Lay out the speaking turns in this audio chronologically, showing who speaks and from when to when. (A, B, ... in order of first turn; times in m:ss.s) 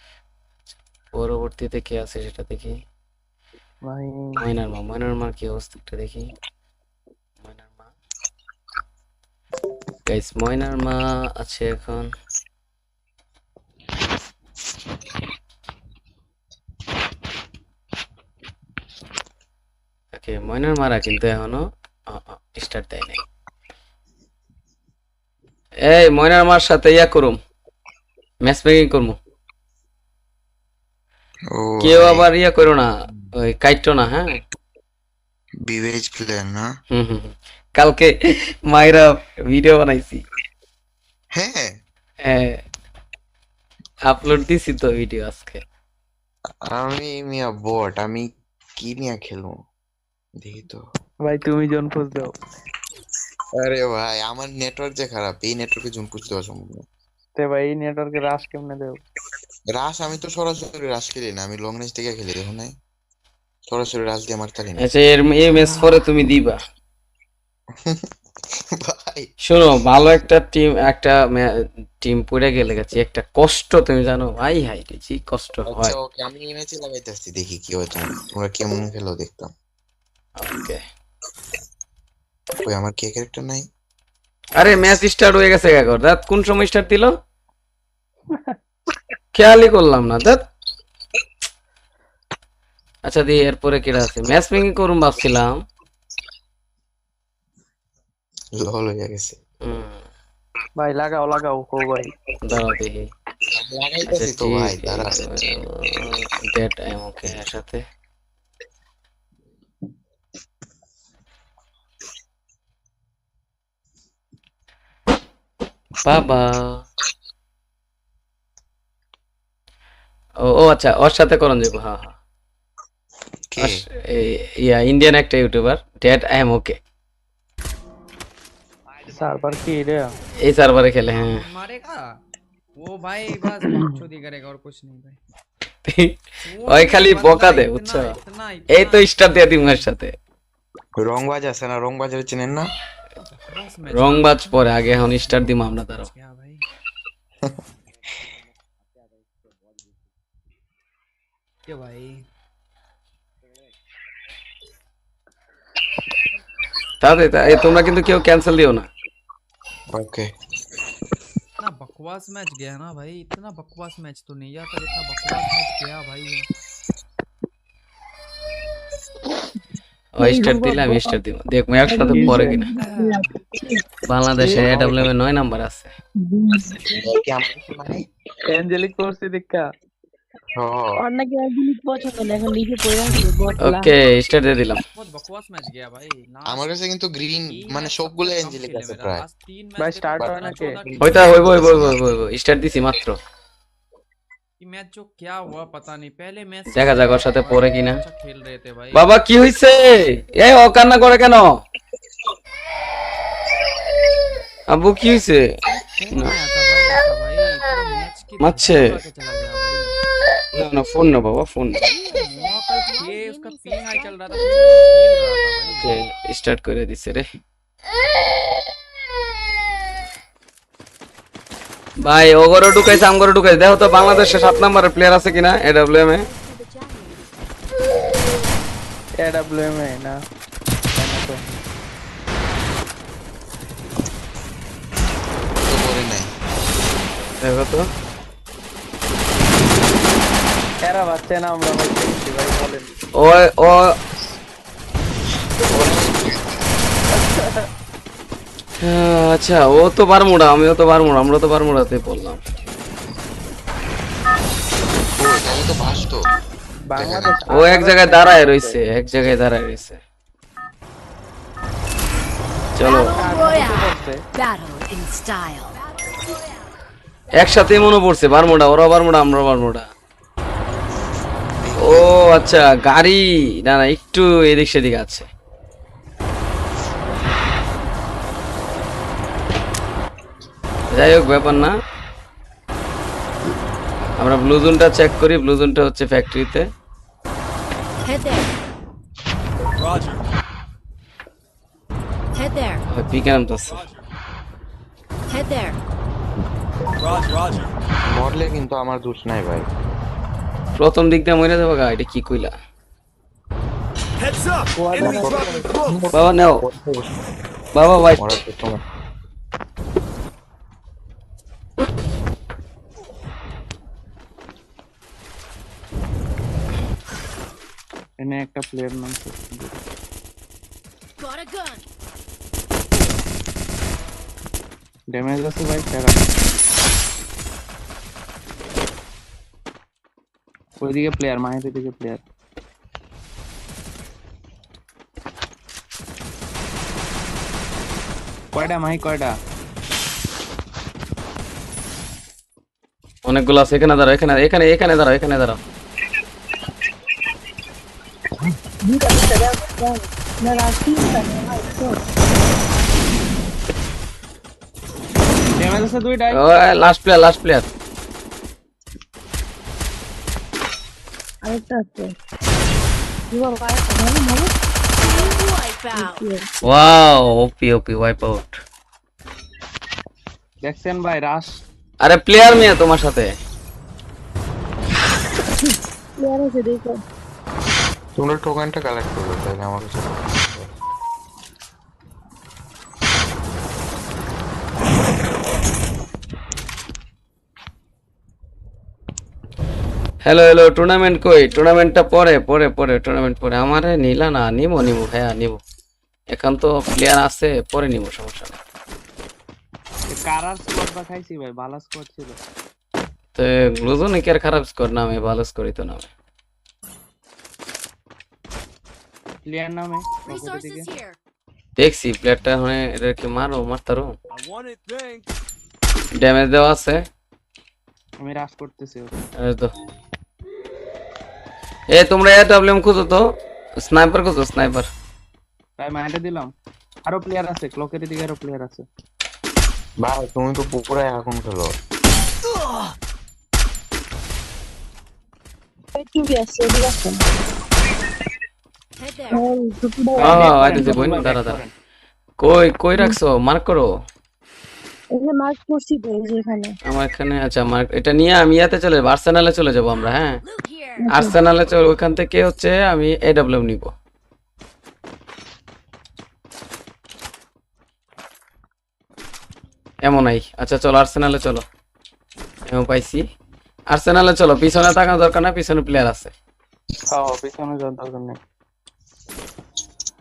0:01.1-0:02.7 A
0:03.8-0:04.4 B
0:04.4-0:06.3 A
0:07.4-0:07.9 A
0:10.1-0:12.1 A
0:20.1-0:23.2 A
0:25.8-0:27.4 A
0:28.4-0:29.2 A
0:31.5-0:32.3 C
0:31.8-0:34.4 A
0:35.6-0:36.7 C
0:36.9-0:40.2 A
0:41.3-0:41.8 C
0:42.2-0:42.6 A
0:44.1-0:45.6 A
0:46.7-0:49.6 C
0:50.4-0:50.9 C
0:51.2-0:52.3 B
0:53.6-0:56.9 C
0:57.4-0:59.0 B
0:59.7-1:02.8 C
1:03.7-1:04.9 C
1:04.8-1:06.6 A
1:07.7-1:09.3 C
1:09.4-1:11.5 A
1:12.0-1:16.0 A
1:15.7-1:19.5 C
1:20.4-1:20.8 A
1:22.6-1:23.7 C
1:24.6-1:27.1 A
1:28.3-1:28.6 B
1:29.3-1:30.4 A
1:33.1-1:35.6 A
1:38.6-1:39.4 C
1:39.6-1:40.1 A
1:40.8-1:42.1 B
1:42.4-1:43.1 A
1:43.5-1:45.2 C
1:44.1-1:47.8 A
1:56.0-1:56.9 A
2:00.4-2:02.2 A
2:03.5-2:03.9 C
2:03.6-2:06.8 A
2:09.1-2:10.2 B
2:10.4-2:11.4 A
2:11.1-2:12.2 D
2:12.8-2:15.2 D
2:15.9-2:18.2 A
2:16.4-2:19.9 D
2:18.7-2:20.1 A
2:21.0-2:22.7 C
2:23.2-2:26.6 D
2:23.9-2:26.1 A
2:31.7-2:32.3 D
2:37.0-2:38.9 A
2:39.9-2:40.3 C
2:41.6-2:46.5 D
2:50.2-2:52.7 A
2:50.2-2:51.2 E
2:51.9-2:53.8 E
2:52.2-2:52.5 B
2:52.7-2:53.4 D
2:54.1-2:55.9 A
2:54.4-2:55.1 C
2:56.2-2:57.1 E
2:56.9-2:58.1 C
2:58.5-2:59.7 B
3:00.5-3:01.0 C
3:01.0-3:03.9 E
3:03.6-3:04.8 A
3:04.8-3:06.8 D
3:06.5-3:09.2 C
3:07.5-3:11.7 D
3:09.8-3:10.8 B
3:10.2-3:12.0 C
3:11.0-3:13.2 A
3:14.6-3:19.1 D
3:16.7-3:18.0 A
3:18.9-3:21.5 A
3:24.7-3:25.5 A
3:25.7-3:29.9 D
3:28.4-3:29.0 A
3:30.6-3:31.9 A
3:31.8-3:35.0 F
3:32.0-3:36.0 D
3:35.6-3:37.3 A
3:42.0-3:46.3 A
3:44.7-3:47.3 F
3:49.2-3:50.2 B
3:51.0-3:51.6 B
3:55.6-3:56.3 C
3:57.4-3:57.9 A
4:00.8-4:02.9 B
4:03.2-4:03.9 A
4:05.6-4:06.6 C
4:07.1-4:07.7 B
4:08.8-4:12.4 A
4:15.1-4:16.3 C
4:16.9-4:18.8 B
4:17.0-4:17.5 C
4:17.5-4:20.0 A
4:22.8-4:23.2 A
4:22.8-4:26.7 F
4:23.1-4:24.2 B
4:27.3-4:29.9 A
4:31.6-4:32.2 C
4:31.8-4:35.3 A
4:40.9-4:41.7 A
4:44.2-4:46.6 A
4:48.0-4:48.5 F
4:52.3-4:52.8 F
4:52.9-4:53.9 A
4:55.3-4:55.8 F
4:58.1-4:59.7 C
5:00.8-5:02.5 A
5:04.8-5:05.6 B
5:04.9-5:07.1 C
5:06.1-5:06.6 A
5:07.8-5:08.2 A
5:08.2-5:08.8 C
5:18.2-5:19.8 B
5:21.2-5:21.8 F
5:25.1-5:26.3 B
5:30.8-5:32.2 B
5:38.5-5:39.4 B
5:43.3-5:45.6 A
5:48.8-5:52.0 E
5:55.6-5:56.4 B
5:56.3-5:57.7 A
6:01.4-6:02.1 E
6:03.3-6:04.5 E
6:05.0-6:06.3 F
6:06.0-6:06.5 E
6:06.6-6:08.6 A
6:10.6-6:11.6 B
6:12.0-6:13.4 A
6:16.2-6:17.0 E
6:18.2-6:20.7 C
6:30.2-6:35.6 A
6:36.3-6:38.6 A
6:40.1-6:42.4 B
6:43.4-6:46.1 A
6:49.4-6:50.9 B
6:50.2-6:51.2 F
6:51.8-6:54.2 A
6:56.2-6:57.0 A
6:58.2-6:59.2 B
6:59.4-6:59.7 A
7:01.9-7:03.2 A
7:03.8-7:04.9 A
7:05.8-7:06.5 B
7:07.1-7:08.9 B
7:10.0-7:11.8 C
7:16.0-7:17.2 E
7:19.0-7:19.4 F
7:19.3-7:21.2 E
7:20.2-7:21.7 B
7:20.2-7:21.6 A
7:22.4-7:23.9 A
7:25.1-7:26.8 E
7:26.9-7:30.4 A
7:30.4-7:31.1 F
7:31.0-7:31.4 E
7:31.1-7:33.9 A
7:40.0-7:41.6 A
7:42.7-7:43.2 A
7:43.9-7:46.3 A
7:47.1-7:48.4 B